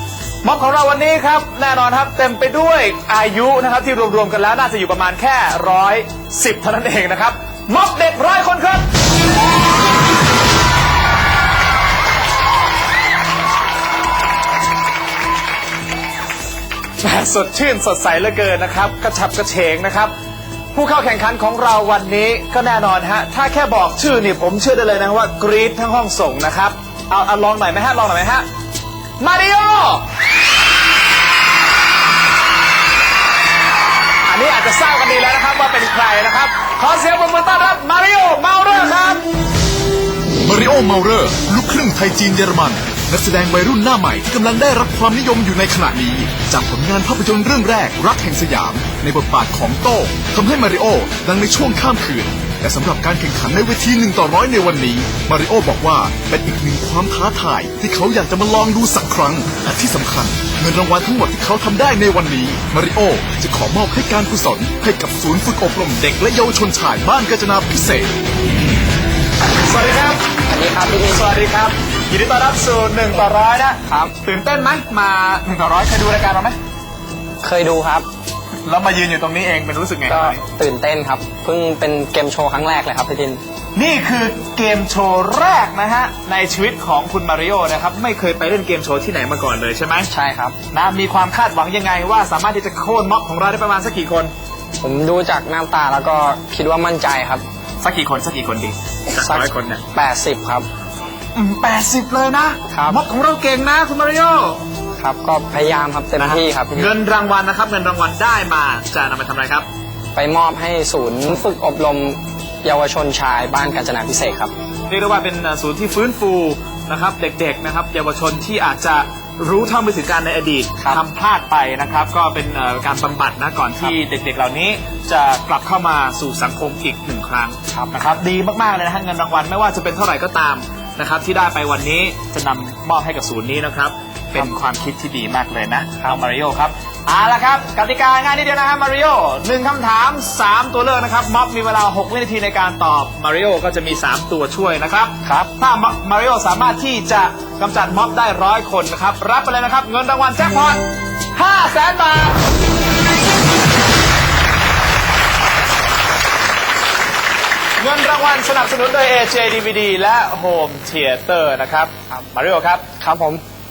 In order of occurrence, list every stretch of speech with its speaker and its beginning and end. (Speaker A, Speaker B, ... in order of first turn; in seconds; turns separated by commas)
Speaker A: 0.4-8.9, Speaker A: 17.0-20.1, Speaker A: 20.7-28.5, Speaker A: 29.2-30.1, Speaker A: 34.3-39.3, Speaker B: 40.4-68.2, Speaker A: 69.7-70.2, Speaker C: 70.5-71.3, Speaker A: 71.1-76.6, Speaker C: 73.9-74.1, Speaker C: 77.4-78.1, Speaker A: 78.7-80.4, Speaker C: 80.1-83.4, Speaker A: 83.8-90.1, Speaker C: 90.1-90.6, Speaker A: 90.7-94.3, Speaker C: 94.8-97.4, Speaker A: 97.8-99.8, Speaker C: 99.2-100.7, Speaker A: 101.3-104.6, Speaker C: 102.7-103.0, Speaker C: 105.0-106.9, Speaker A: 106.2-109.7, Speaker C: 110.2-114.5, Speaker A: 114.9-150.8, Speaker C: 145.2-145.5, Speaker A: 151.3-152.4, Speaker A: 157.8-162.8, Speaker C: 163.0-163.4